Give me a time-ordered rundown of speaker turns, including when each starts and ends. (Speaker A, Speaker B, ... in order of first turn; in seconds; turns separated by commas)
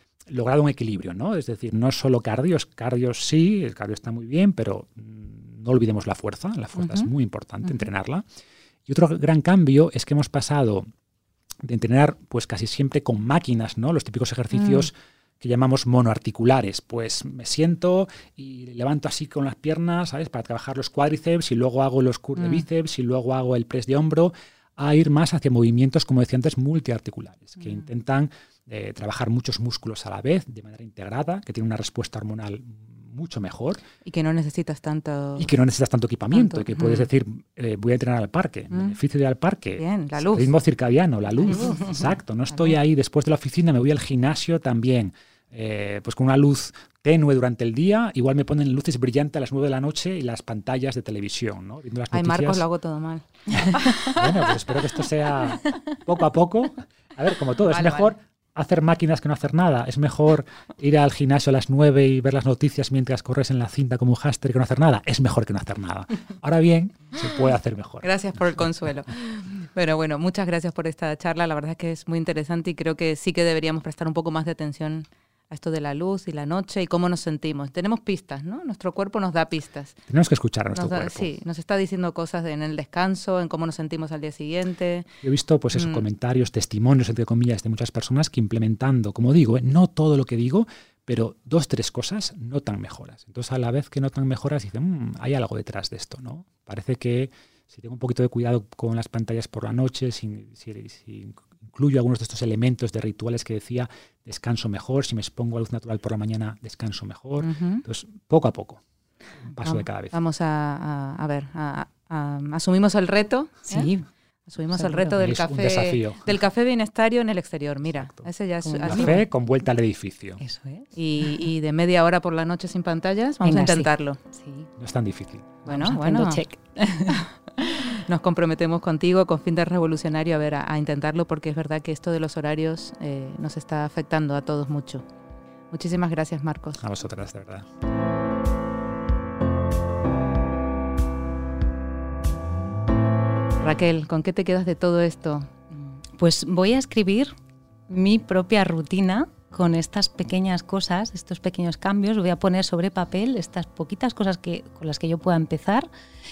Speaker A: 0.3-8.2, Speaker B: 6.8-7.1, Speaker A: 8.9-10.9, Speaker A: 11.6-33.8, Speaker B: 14.6-14.9, Speaker B: 34.0-35.5, Speaker A: 35.4-52.6, Speaker B: 36.3-37.1, Speaker B: 38.7-39.0, Speaker B: 39.8-40.5, Speaker B: 41.4-41.9, Speaker B: 52.1-54.5, Speaker A: 53.5-68.1, Speaker B: 57.7-58.1, Speaker B: 68.0-80.0, Speaker A: 80.1-81.3, Speaker B: 80.7-85.1, Speaker A: 85.2-108.8, Speaker B: 85.7-86.0, Speaker B: 107.4-107.8, Speaker A: 109.5-110.2, Speaker B: 109.6-113.9, Speaker C: 113.7-114.1, Speaker B: 114.5-119.2, Speaker A: 115.2-116.3, Speaker C: 118.6-119.2, Speaker A: 118.8-120.4, Speaker C: 120.4-121.3, Speaker B: 121.0-124.2, Speaker C: 123.5-124.7, Speaker A: 124.8-125.7, Speaker B: 125.7-126.4, Speaker C: 125.7-127.9, Speaker B: 127.1-135.0, Speaker B: 135.7-136.8, Speaker A: 136.8-137.7, Speaker B: 143.6-145.5, Speaker C: 145.7-147.3, Speaker C: 147.9-155.9